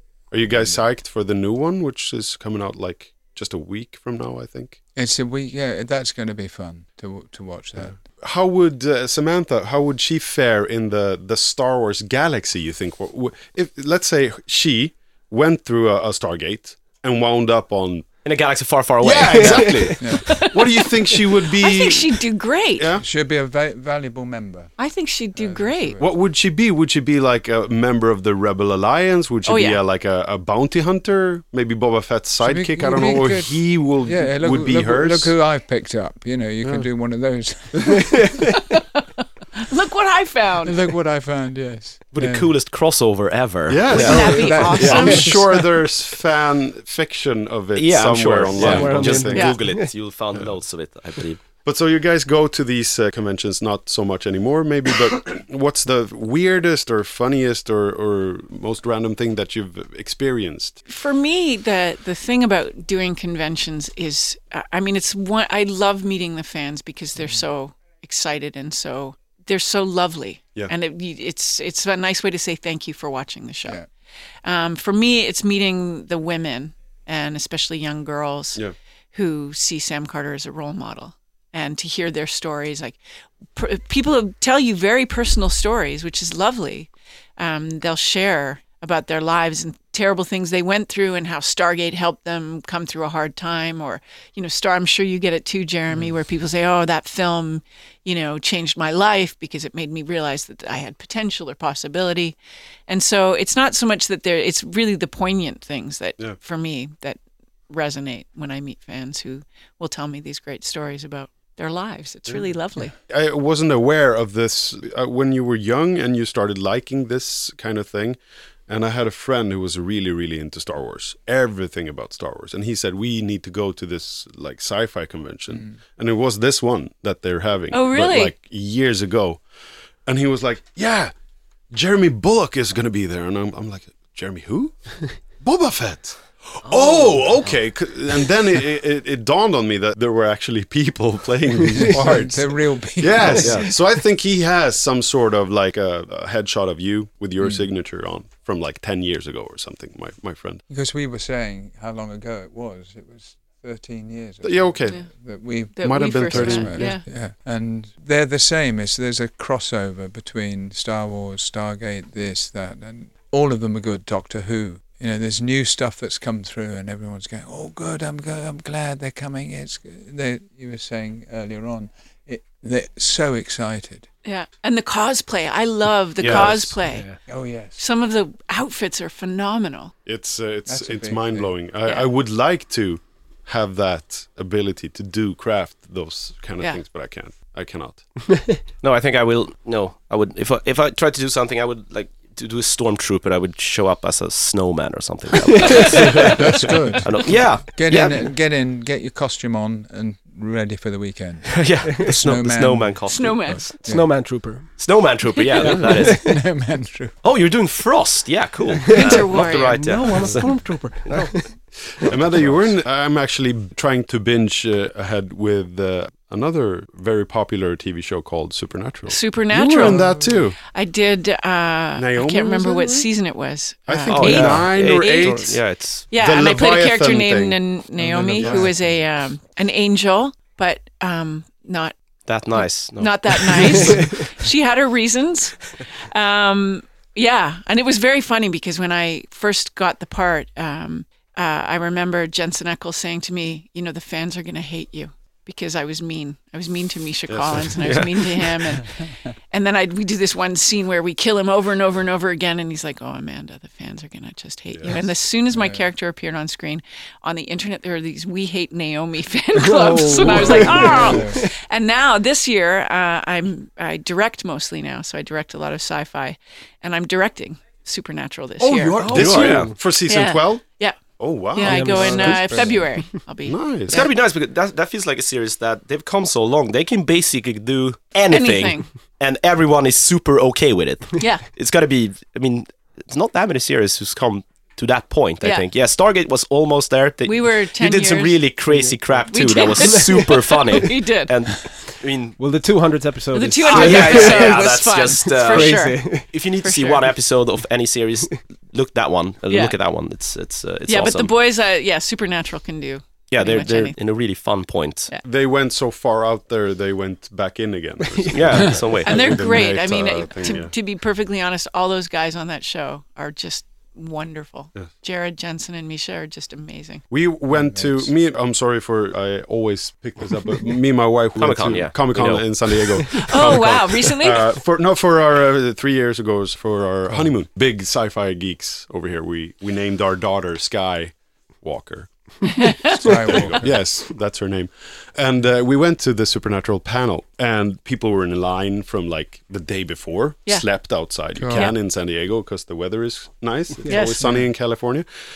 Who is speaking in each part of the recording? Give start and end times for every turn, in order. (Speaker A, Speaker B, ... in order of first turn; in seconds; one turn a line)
Speaker A: 0.3-4.8
Speaker B: 5.0-8.0
Speaker A: 7.8-18.1
Speaker C: 18.2-19.9
Speaker A: 19.0-22.2
Speaker D: 19.4-20.0
Speaker B: 20.0-20.3
Speaker E: 20.3-22.9
Speaker A: 22.8-23.0
Speaker B: 23.0-24.7
Speaker E: 24.8-26.0
Speaker B: 25.4-26.1
Speaker A: 26.0-35.3
Speaker E: 29.4-29.8
Speaker B: 32.4-38.4
Speaker A: 36.6-36.9
Speaker E: 39.6-40.8
Speaker B: 40.6-42.5
Speaker C: 42.1-45.0
Speaker A: 43.7-49.5
Speaker E: 43.9-45.5
Speaker B: 44.0-45.5
Speaker C: 47.7-51.4
Speaker D: 48.5-49.9
Speaker E: 49.3-49.6
Speaker A: 51.6-60.8
Speaker E: 60.9-73.8
Speaker E: 74.4-78.6
Speaker E: 79.1-83.0
Speaker E: 83.5-102.3
Speaker E: 102.9-107.2
Speaker E: 107.7-112.9
Speaker A: 113.1-129.4
Speaker E: 127.7-128.3
Speaker A: 130.1-131.1
Speaker A: 131.7-150.6
Speaker B: 141.8-143.7
Speaker C: 143.3-143.7
Speaker B: 147.4-147.7
Speaker B: 150.7-174.1
Speaker A: 154.4-155.0
Speaker E: 155.7-157.1
Speaker A: 155.8-157.0
Speaker E: 174.2-177.1
Speaker A: 176.2-176.8
Speaker C: 176.2-176.5
Speaker D: 176.8-177.2
Speaker B: 177.2-177.8
Speaker E: 177.8-179.9
Speaker A: 180.1-188.1
Speaker B: 180.7-181.5
Speaker C: 188.8-198.3
Speaker D: 195.6-196.4
Speaker B: 196.2-204.1
Speaker C: 201.5-203.4
Speaker E: 203.1-203.8
Speaker D: 203.8-204.9
Speaker C: 204.8-206.4
Speaker D: 205.6-206.3
Speaker B: 206.1-207.2
Speaker C: 207.2-211.3
Speaker D: 208.8-209.2
Speaker E: 208.9-209.9
Speaker D: 209.9-212.1
Speaker A: 209.9-210.7
Speaker A: 212.0-220.6
Speaker E: 219.1-225.5
Speaker B: 219.8-220.3
Speaker A: 222.0-223.1
Speaker A: 223.9-225.6
Speaker C: 224.1-226.1
Speaker E: 226.1-231.9
Speaker A: 226.1-227.6
Speaker B: 228.0-228.8
Speaker A: 228.4-228.7
Speaker C: 232.3-234.0
Speaker E: 232.5-249.0
Speaker D: 233.9-234.2
Speaker A: 247.3-248.0
Speaker C: 247.8-248.1
Speaker E: 249.5-274.1
Speaker B: 255.5-255.8
Speaker D: 259.6-261.5
Speaker A: 260.2-261.3
Speaker B: 260.2-261.4
Speaker A: 268.6-270.6
Speaker C: 269.0-269.7
Speaker D: 269.0-269.7
Speaker A: 271.2-272.7
Speaker D: 271.6-272.6
Speaker B: 271.7-272.8
Speaker A: 273.4-274.0
Speaker C: 273.9-292.4
Speaker E: 278.3-278.9
Speaker E: 287.2-288.5
Speaker D: 288.7-290.2
Speaker E: 289.3-291.3
Speaker D: 292.4-294.7
Speaker E: 293.3-297.1
Speaker C: 293.6-301.3
Speaker D: 295.4-296.3
Speaker E: 299.5-299.7
Speaker E: 300.9-303.9
Speaker C: 303.3-305.1
Speaker A: 305.2-310.7
Speaker C: 308.3-309.4
Speaker E: 309.0-317.0
Speaker A: 317.1-345.1
Speaker B: 317.6-318.1
Speaker C: 321.4-323.2
Speaker E: 323.1-324.4
Speaker E: 332.5-332.9
Speaker B: 332.9-333.8
Speaker B: 341.4-341.7
Speaker E: 343.9-344.3
Speaker B: 344.2-344.4